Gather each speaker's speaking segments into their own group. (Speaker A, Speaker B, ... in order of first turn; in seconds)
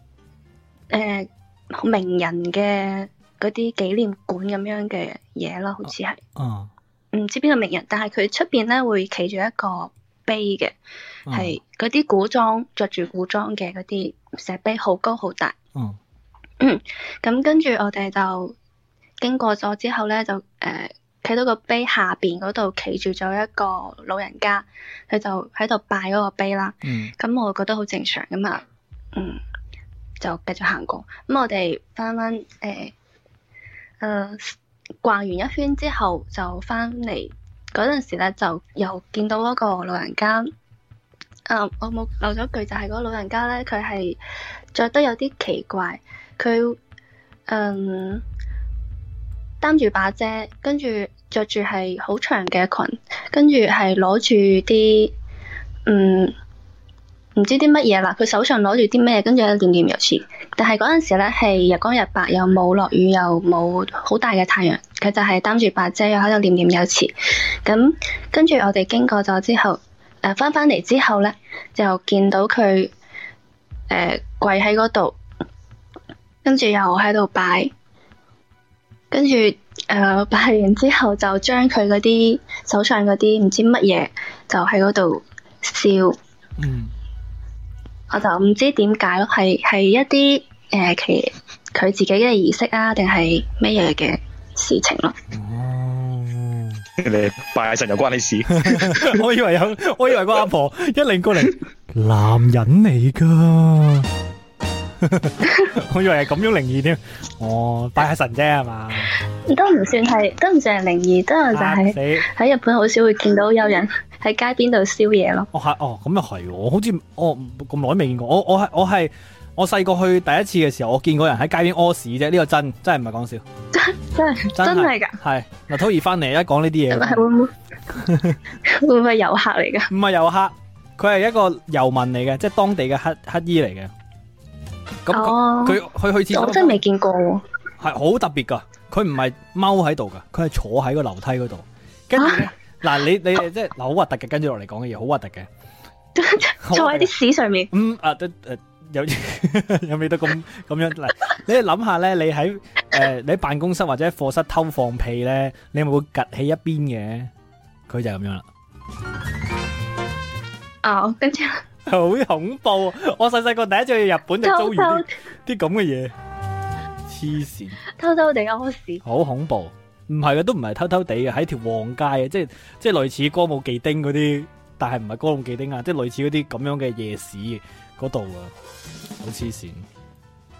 Speaker A: 0.9-6.2, 7.1-10.7, 11.3-15.5, 16.6-18.5, 19.2-28.6, 29.1-29.4, 30.2-32.9, 34.0-40.5, 41.5-44.2, 44.7-46.8, 47.5-48.2, 49.6-55.1, 55.9-56.3, 57.4-72.9, 73.9-75.2, 76.4-77.7, 79.1-86.2, 88.1-95.2, 109.5-115.5, 123.7-125.2, 126.9-127.5, 128.6-129.9, 135.1-137.4, 142.2-142.4, 146.2-147.7, 160.8-161.6, 164.4-165.1, 168.0-169.0
Speaker B: 6.4-6.7, 11.3-11.6, 26.8-27.1, 86.6-86.9, 95.3-96.8, 98.5-104.1, 105.0-109.1, 111.5-112.3, 115.5-123.4, 124.5-127.2, 127.9-128.4, 129.9-133.9, 135.1-136.8, 137.8-145.5, 146.6-147.1, 147.7-157.3, 157.9-158.4, 161.9-166.1, 167.1-167.8, 169.0-178.5, 179.2-179.9
Speaker C: 97.0-99.2